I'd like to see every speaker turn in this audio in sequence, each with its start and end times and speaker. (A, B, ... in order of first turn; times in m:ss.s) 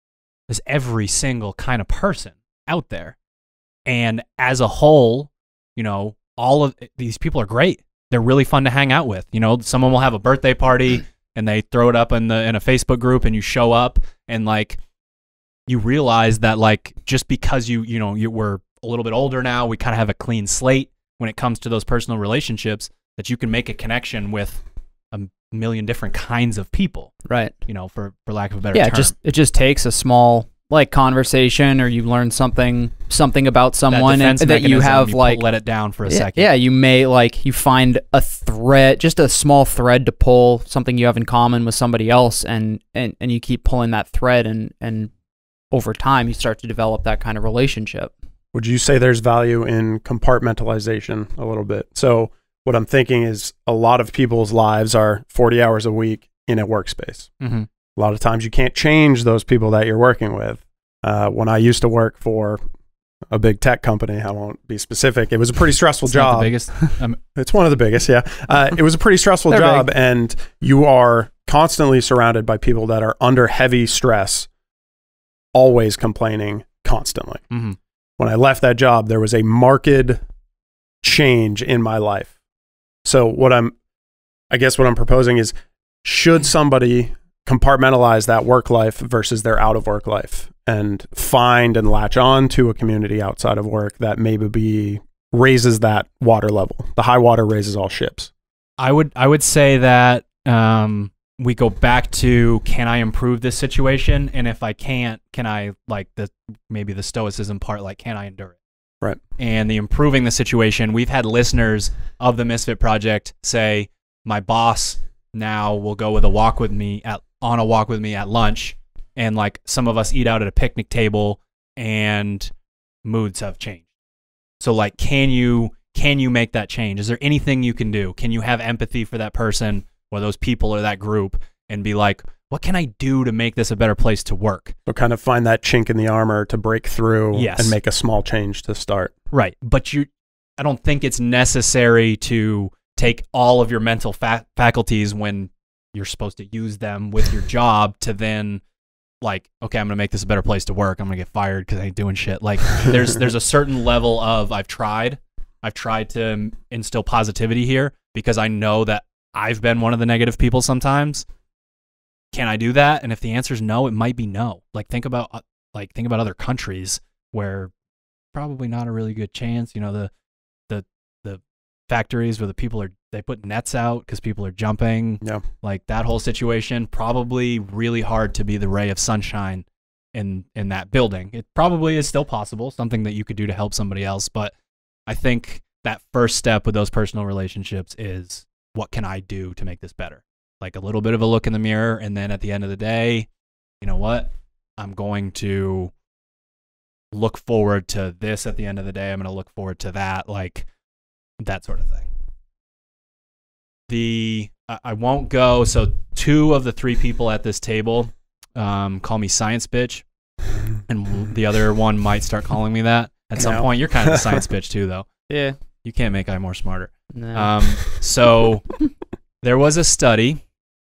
0:00.5-0:03.2 A
0:03.9-0:14.8 A
0:15.7-0:29.1 A
0:27.3-0:27.5 B
0:28.7-0:35.4 B
0:33.9-0:36.5 A
0:36.1-0:45.1 B
0:45.7-0:48.1 B
0:48.5-0:57.3 C
0:57.4-0:57.7 A
0:58.0-1:02.6 C
1:03.3-1:06.6 C
1:06.1-1:07.2 A
1:07.4-1:14.5 C
1:09.5-1:09.9 B
1:15.5-1:17.4 C
1:17.5-1:17.8 A
1:18.2-1:20.2 C
1:21.0-1:22.3 C
1:23.0-1:23.8 C
1:24.5-1:38.3 C
1:38.8-1:48.6 A
1:49.4-2:02.5 A
2:03.0-2:03.9 A
2:04.6-2:14.8 A
2:14.9-2:19.1 C
2:17.3-2:17.8 A
2:19.3-2:28.6 A
2:29.2-2:41.2 A
2:42.3-2:47.7 A
2:48.3-2:50.1 A
2:50.7-3:04.5 A
3:05.1-3:13.3 A
3:13.8-3:15.9 A
3:17.1-3:20.7 A
3:21.4-3:22.1 A
3:23.9-3:30.0 A
3:30.9-3:35.1 A
3:33.4-3:34.1 C
3:35.3-3:35.6 B
3:35.8-3:38.8 A
3:37.1-3:37.5 B
3:39.4-3:40.4 A